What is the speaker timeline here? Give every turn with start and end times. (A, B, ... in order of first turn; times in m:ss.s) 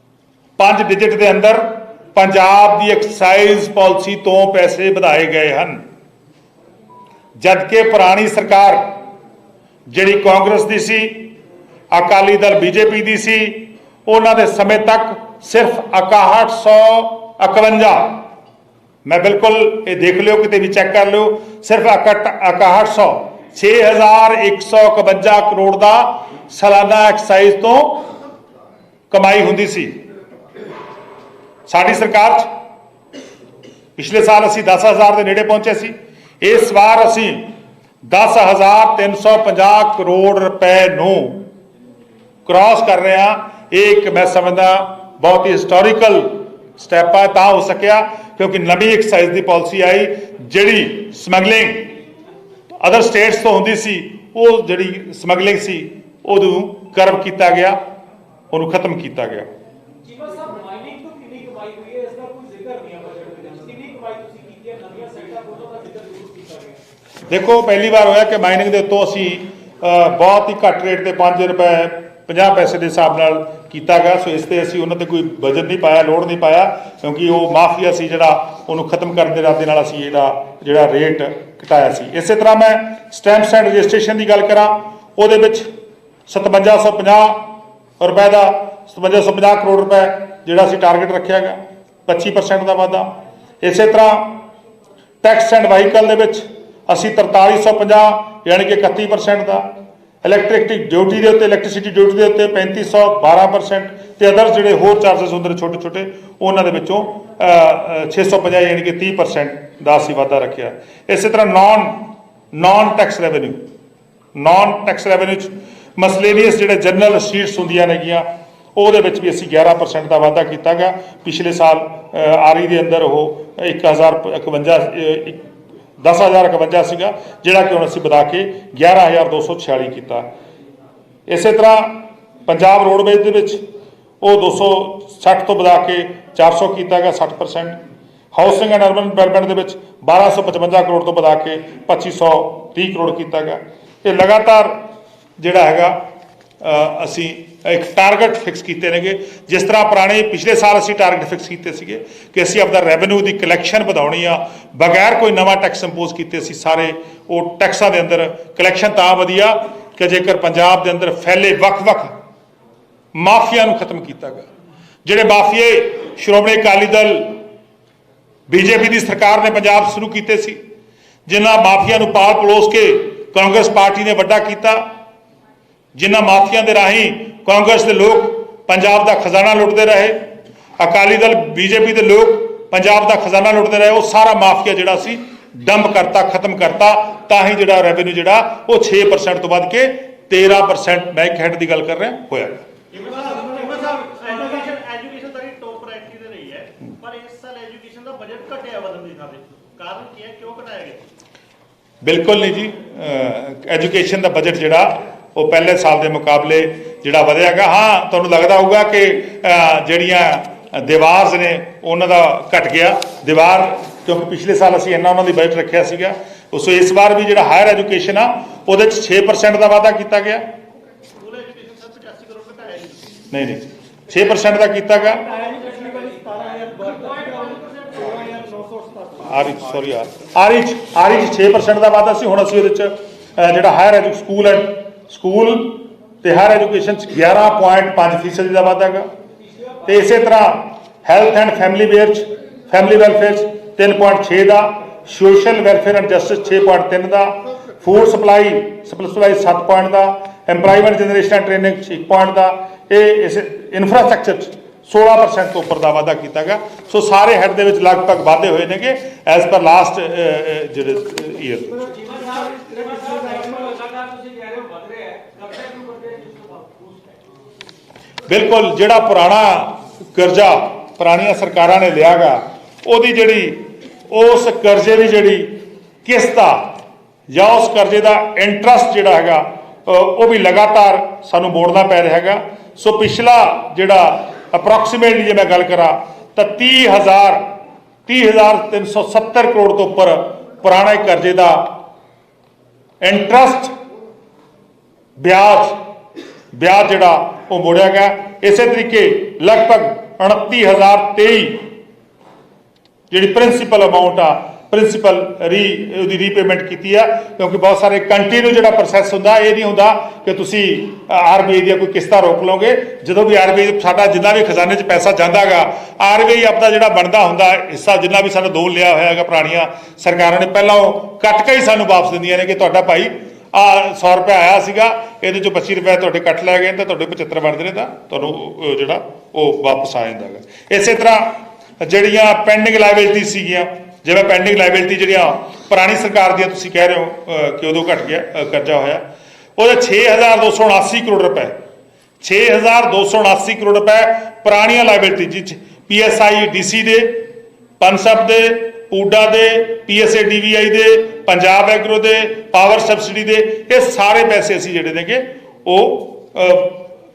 0:00.6-0:05.8 A
0:07.4-0:09.0 A
0:09.9-0:11.3 A
0:11.9-0:18.3 A
0:19.0-0:28.1 A
0:29.1-0:30.0 A
0:31.7-0:32.5 A
0:34.0-0:37.5 A
0:38.0-0:41.5 A
0:42.4-0:52.0 A
0:52.7-0:57.8 A
0:58.5-0:59.5 A
1:00.0-1:06.8 B
1:07.3-1:25.7 A
1:26.3-1:34.4 A
1:35.2-1:53.6 A
1:54.3-2:05.4 A
2:06.0-2:10.3 A
2:11.3-2:13.6 A
2:14.2-2:17.8 A
2:18.3-2:24.8 A
2:25.4-2:26.0 A
2:26.6-2:42.2 A
2:43.1-2:44.5 A
2:45.0-2:47.4 A
2:48.5-2:50.6 A
2:51.3-2:54.9 A
2:55.9-3:12.6 A
3:12.9-3:21.0 C
3:22.0-3:40.5 A
3:41.1-3:43.1 C
3:43.3-3:45.2 A
3:45.1-3:49.2 C
3:45.3-3:47.6 B
3:49.2-3:59.1 A
3:59.4-3:59.8 B
3:59.8-4:21.8 A
4:21.8-4:27.2 B
4:28.3-4:36.8 A
4:37.3-4:47.5 A
4:48.1-4:51.8 A
4:53.0-4:53.7 A
4:55.2-4:55.8 A
4:56.5-5:01.7 A
5:03.1-5:39.0 A
5:39.6-5:41.6 A
5:42.2-5:56.9 A